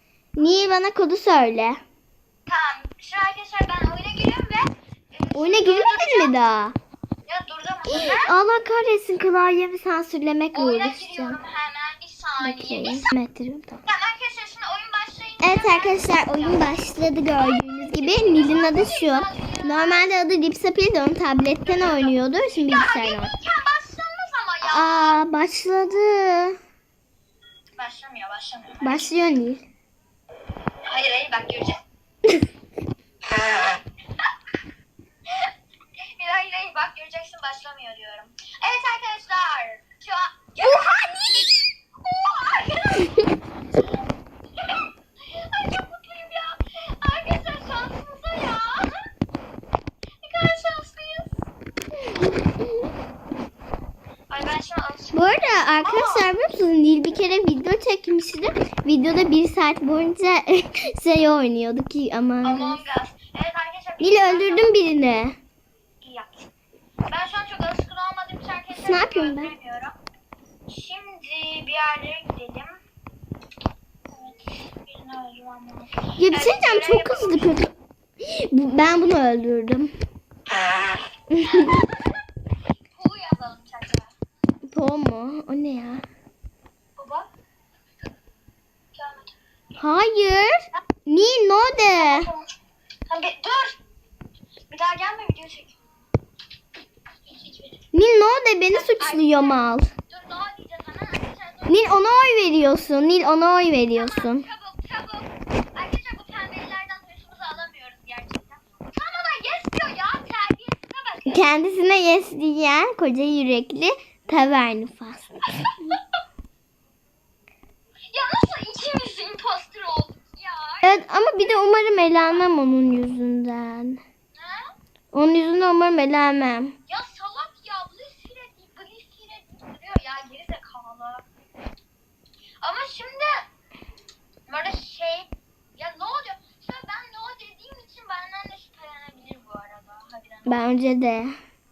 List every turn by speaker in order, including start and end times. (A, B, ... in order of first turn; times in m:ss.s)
0:00.4-0:01.8 A
0:02.5-0:06.4 B
0:05.4-0:06.8 A
0:07.3-0:08.4 B
0:07.9-0:11.4 A
0:10.5-0:13.1 B
0:12.4-0:13.8 A
0:13.9-0:16.8 B
0:15.4-0:23.3 A
0:17.4-0:20.1 B
0:21.6-0:25.2 B
0:24.6-0:26.6 A
0:27.8-0:29.1 B
0:28.8-0:29.7 A
0:30.8-0:31.8 B
0:33.3-0:33.7 B
0:35.3-0:43.9 B
0:44.6-0:49.1 B
0:50.2-0:51.4 B
0:52.2-0:52.7 A
0:54.3-0:56.4 B
0:55.1-1:02.8 A
1:02.4-1:04.7 B
1:04.0-1:05.4 A
1:06.0-1:06.5 B
1:07.1-1:10.0 B
1:08.8-1:09.5 A
1:10.7-1:12.8 B
1:14.1-1:17.5 B
1:16.2-1:19.9 A
1:21.3-1:21.9 A
1:21.4-1:22.0 B
1:22.9-1:24.1 B
1:24.7-1:26.0 A
1:27.0-1:27.3 B
1:28.9-1:29.3 B
1:29.8-1:32.3 A
1:31.9-1:32.5 B
1:33.1-1:33.8 B
1:34.7-1:35.8 B
1:37.3-1:37.8 B
1:37.9-1:39.9 A
1:38.7-1:42.0 B
1:41.7-1:44.5 A
1:43.9-1:51.4 B
1:51.3-1:55.4 A
1:55.5-1:56.0 B
1:58.1-2:01.0 B
2:00.8-2:04.0 A
2:02.2-2:02.5 B
2:04.3-2:04.7 B
2:05.1-2:06.8 A
2:06.9-2:11.3 B
2:12.6-2:13.5 B
2:14.5-2:20.7 B
2:20.5-2:21.3 A